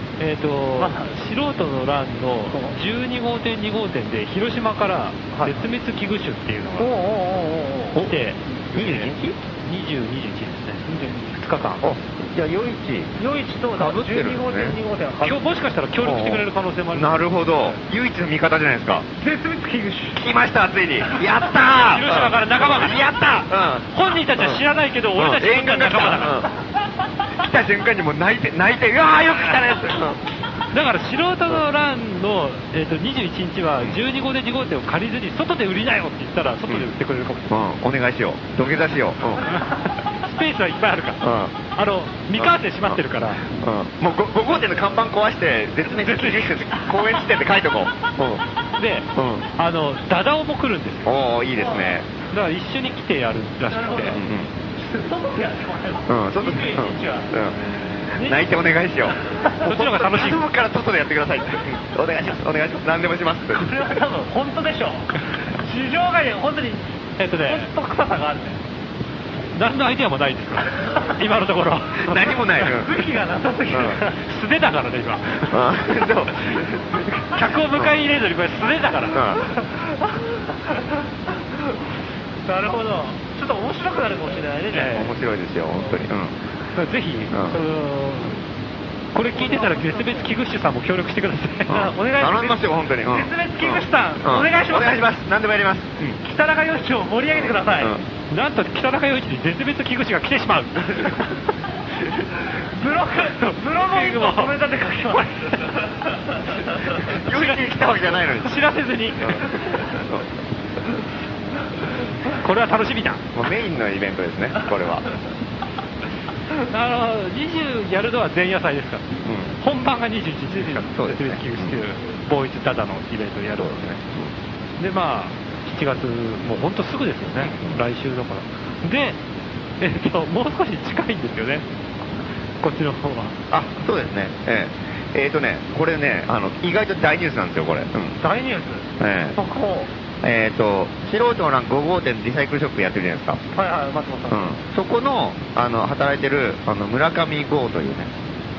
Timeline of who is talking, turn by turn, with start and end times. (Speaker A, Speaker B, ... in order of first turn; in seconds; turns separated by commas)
Speaker A: 0.2-6.9, Speaker B: 0.8-1.2, Speaker B: 2.5-2.8, Speaker B: 5.3-5.7, Speaker B: 6.8-8.8, Speaker A: 8.0-9.1, Speaker C: 8.7-9.4, Speaker A: 9.6-11.9, Speaker B: 10.8-11.4, Speaker C: 11.8-13.1, Speaker B: 13.2-15.5, Speaker C: 13.8-14.8, Speaker A: 15.2-17.8, Speaker C: 16.0-19.1, Speaker B: 19.2-20.2, Speaker C: 20.1-24.6, Speaker B: 21.1-21.5, Speaker A: 21.8-26.4, Speaker C: 25.2-26.5, Speaker C: 27.4-30.2, Speaker A: 30.7-37.6, Speaker C: 37.5-39.5, Speaker A: 40.2-43.5, Speaker C: 41.2-41.7, Speaker C: 42.4-43.0, Speaker C: 43.5-48.4, Speaker A: 45.9-46.8, Speaker B: 46.8-47.3, Speaker A: 48.8-51.1, Speaker C: 49.1-49.5, Speaker C: 51.0-52.1, Speaker B: 51.5-52.0, Speaker A: 52.2-54.2, Speaker B: 53.7-57.3, Speaker C: 54.1-54.5, Speaker C: 56.1-57.6, Speaker B: 58.2-59.7, Speaker C: 58.2-63.8, Speaker A: 59.6-60.5, Speaker B: 63.5-68.6, Speaker A: 67.2-67.7, Speaker A: 69.5-72.7, Speaker C: 72.0-72.9, Speaker B: 72.6-74.2, Speaker C: 73.7-74.0, Speaker A: 74.2-75.6, Speaker C: 75.5-77.0, Speaker A: 77.2-79.2, Speaker C: 79.1-79.4, Speaker B: 79.4-80.5, Speaker B: 82.5-85.1, Speaker A: 84.7-85.2, Speaker C: 84.9-86.3, Speaker B: 85.7-86.1, Speaker A: 86.7-87.5, Speaker C: 87.3-87.6, Speaker B: 87.5-88.4, Speaker A: 89.1-91.9, Speaker B: 89.3-90.3, Speaker C: 91.7-96.2, Speaker B: 91.7-95.0, Speaker B: 96.2-98.0, Speaker A: 98.3-101.2, Speaker B: 102.7-105.6, Speaker A: 103.4-104.5, Speaker C: 107.2-108.6, Speaker A: 107.3-107.8, Speaker A: 108.3-109.4, Speaker C: 109.2-110.2, Speaker A: 112.4-113.2, Speaker C: 113.3-115.0, Speaker A: 116.7-123.9, Speaker C: 119.2-119.5, Speaker B: 120.5-120.8, Speaker C: 120.8-121.8, Speaker C: 123.6-124.3, Speaker A: 124.8-129.2, Speaker C: 127.4-127.8, Speaker A: 129.8-131.7, Speaker A: 132.6-133.4, Speaker C: 133.5-138.2, Speaker B: 138.2-139.9, Speaker C: 139.0-139.4, Speaker C: 140.2-143.4, Speaker B: 143.5-144.6, Speaker C: 144.3-148.1